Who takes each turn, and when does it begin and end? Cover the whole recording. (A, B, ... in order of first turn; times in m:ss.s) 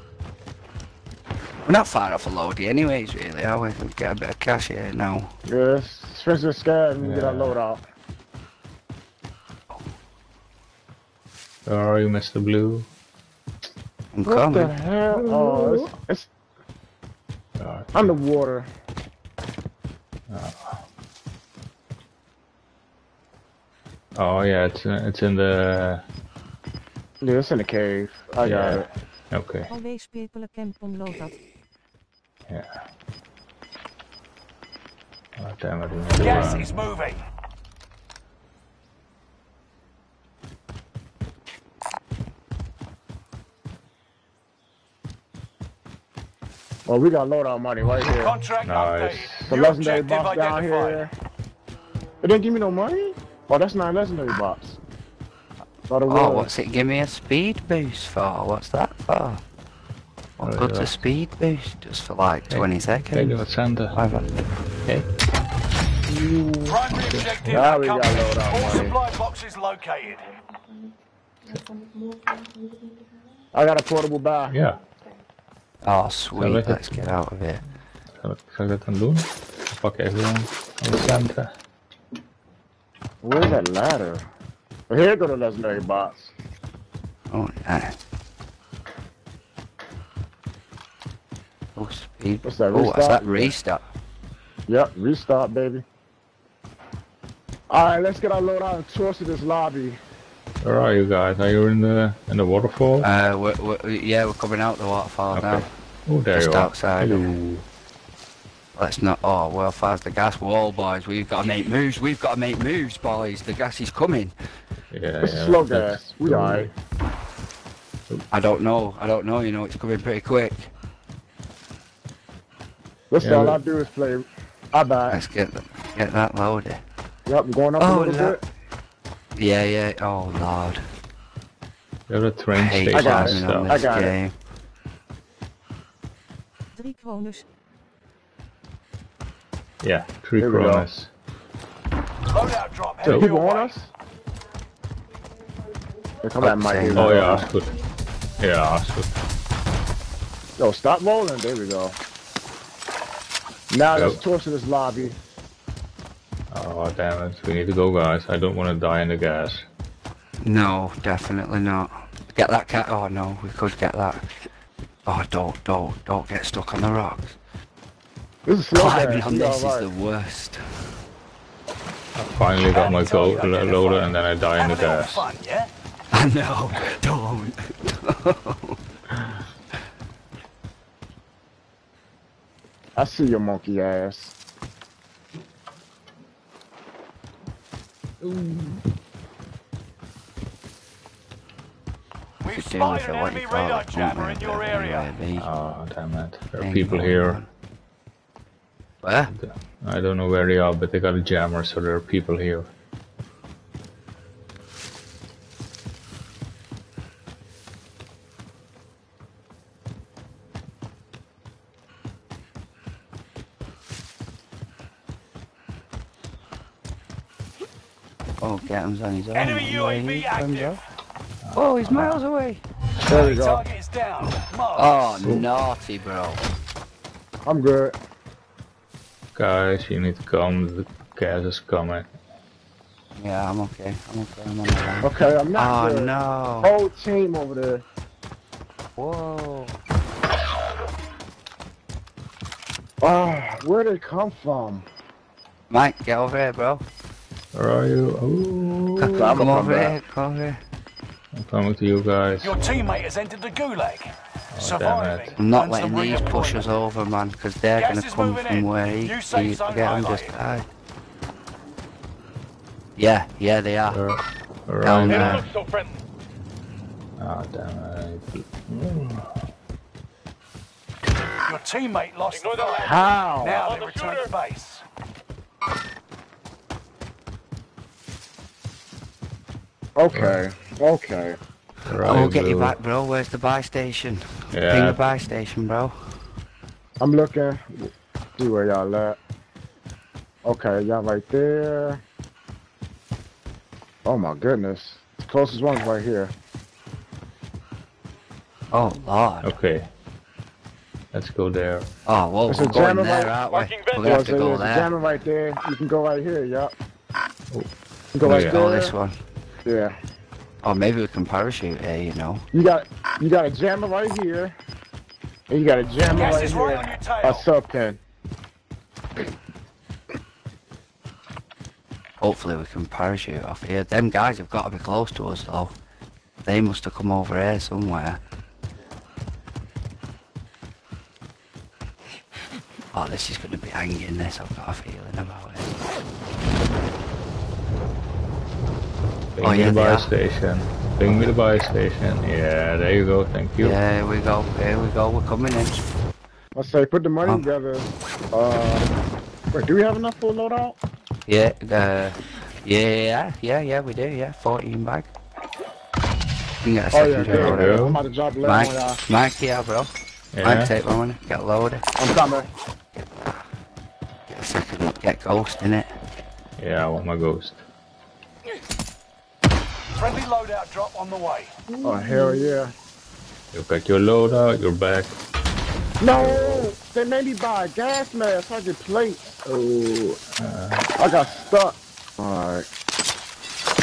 0:01.7-0:05.3 A
0:05.5-0:07.8 B
0:07.0-0:07.6 C
0:11.7-0:12.9 C
0:14.1-0:14.8 A
0:14.3-0:16.3 B
0:17.6-0:18.2 C
0:17.9-0:18.7 B
0:20.3-0:20.8 C
0:24.2-0:26.0 C
0:27.2-0:28.9 B
0:28.4-0:29.7 C
0:29.7-0:31.4 D
0:32.5-0:32.8 C
0:35.4-0:36.7 C
0:36.1-0:37.2 E
0:46.9-0:48.3 B
0:48.2-0:51.1 E
0:48.6-0:49.5 C
0:49.5-0:51.1 B
0:52.2-0:54.8 B
0:55.9-0:56.5 B
0:56.1-0:59.4 A
1:00.4-1:00.9 C
1:00.4-1:04.3 A
1:02.5-1:04.0 C
1:06.1-1:06.5 B
1:06.3-1:07.7 C
1:06.7-1:10.3 E
1:07.5-1:09.0 B
1:13.5-1:14.6 B
1:14.5-1:14.8 C
1:15.8-1:17.6 A
1:16.3-1:17.2 C
1:18.2-1:21.5 C
1:23.2-1:24.3 B
1:24.9-1:26.3 B
1:27.3-1:28.0 A
1:31.8-1:33.8 A
1:32.4-1:33.5 B
1:34.7-1:35.8 B
1:37.7-1:40.0 B
1:40.6-1:43.1 C
1:43.0-1:45.7 A
1:45.3-1:47.6 C
1:46.3-1:47.2 A
1:48.8-1:54.3 A
1:54.9-1:56.7 C
1:55.2-1:56.7 B
1:58.3-2:00.7 A
2:03.1-2:05.2 B
2:03.2-2:03.6 C
2:05.1-2:06.8 A
2:07.3-2:08.4 B
2:07.8-2:08.4 A
2:09.4-2:10.9 A
2:12.1-2:13.9 C
2:12.6-2:14.3 A
2:12.9-2:14.1 B
2:16.7-2:17.4 D
2:19.8-2:21.1 C
2:20.4-2:20.9 B
2:22.3-2:23.7 E
2:23.0-2:23.3 C
2:23.1-2:23.9 B
2:26.2-2:27.5 B
2:26.4-2:27.5 A
2:27.0-2:27.8 C
2:28.4-2:29.1 C
2:30.6-2:32.0 B
2:33.7-2:35.2 B
2:33.9-2:34.2 C
2:36.5-2:39.7 C
2:40.4-2:44.3 A
2:45.1-2:47.4 A
2:48.5-2:49.9 B
2:48.7-2:50.9 A
2:52.2-2:55.2 C
2:52.7-2:55.7 E
2:56.1-2:58.8 A
3:03.0-3:04.4 B
3:08.3-3:08.8 C
3:12.4-3:15.1 E
3:12.5-3:15.5 A
3:15.4-3:17.4 C
3:16.6-3:17.5 A
3:19.0-3:19.3 A
3:19.3-3:22.7 C
3:38.4-3:40.8 A
3:39.3-3:40.8 E
3:41.4-3:42.2 C
3:41.6-3:42.6 A
3:43.1-3:43.6 B
3:43.1-3:45.1 E
3:44.8-3:46.4 A
3:45.2-3:45.5 C
3:47.4-3:48.0 B
3:49.4-3:52.1 C
3:53.2-3:56.7 A
3:55.0-3:56.1 B
3:56.6-3:57.8 B
3:59.0-3:59.7 A
4:03.0-4:04.9 B
4:05.7-4:06.8 A
4:07.5-4:09.4 C
4:09.0-4:10.6 A
4:09.2-4:10.0 B
4:11.3-4:12.6 C
4:12.4-4:16.6 E
4:14.5-4:15.4 C
4:15.4-4:20.7 A
4:17.8-4:20.4 E
4:23.0-4:24.0 A
4:23.9-4:25.5 C
4:24.8-4:25.5 A
4:25.1-4:26.0 F
4:27.2-4:29.4 C
4:31.5-4:34.8 E
4:32.3-4:34.3 F
4:32.8-4:33.7 B
4:40.0-4:41.4 B
4:40.1-4:40.4 C
4:41.9-4:42.8 C
4:42.0-4:46.2 A
4:44.5-4:45.2 C
4:47.0-4:49.2 B
4:50.4-4:52.0 B
4:54.0-4:56.3 B
4:58.7-4:59.5 A
4:59.4-4:59.9 C
5:01.1-5:01.9 C
5:02.1-5:04.9 A
5:02.5-5:03.4 B
5:03.4-5:04.6 F
5:04.0-5:06.7 B
5:08.1-5:08.9 B
5:08.2-5:08.6 C
5:08.2-5:09.2 A
5:09.7-5:10.0 B
5:10.6-5:12.4 A
5:12.5-5:14.6 B
5:15.5-5:18.0 B
5:16.1-5:17.5 E
5:22.2-5:25.7 A
5:26.4-5:28.2 A
5:32.9-5:35.7 A
5:39.4-5:43.8 C
5:39.4-5:40.1 A
5:41.0-5:41.4 A
5:43.6-5:45.8 A
5:46.6-5:48.9 B
5:49.5-5:50.8 B
5:51.3-5:55.1 A
5:56.6-6:01.8 A
5:56.9-5:59.0 B
5:57.2-5:58.0 C
6:00.3-6:00.8 C
6:02.0-6:02.5 B
6:04.3-6:05.9 A
6:06.6-6:07.6 C
6:10.0-6:11.5 E
6:11.8-6:12.7 B
6:13.5-6:15.2 C
6:16.0-6:19.4 B
6:16.1-6:16.7 C
6:19.4-6:21.4 C
6:21.0-6:22.7 B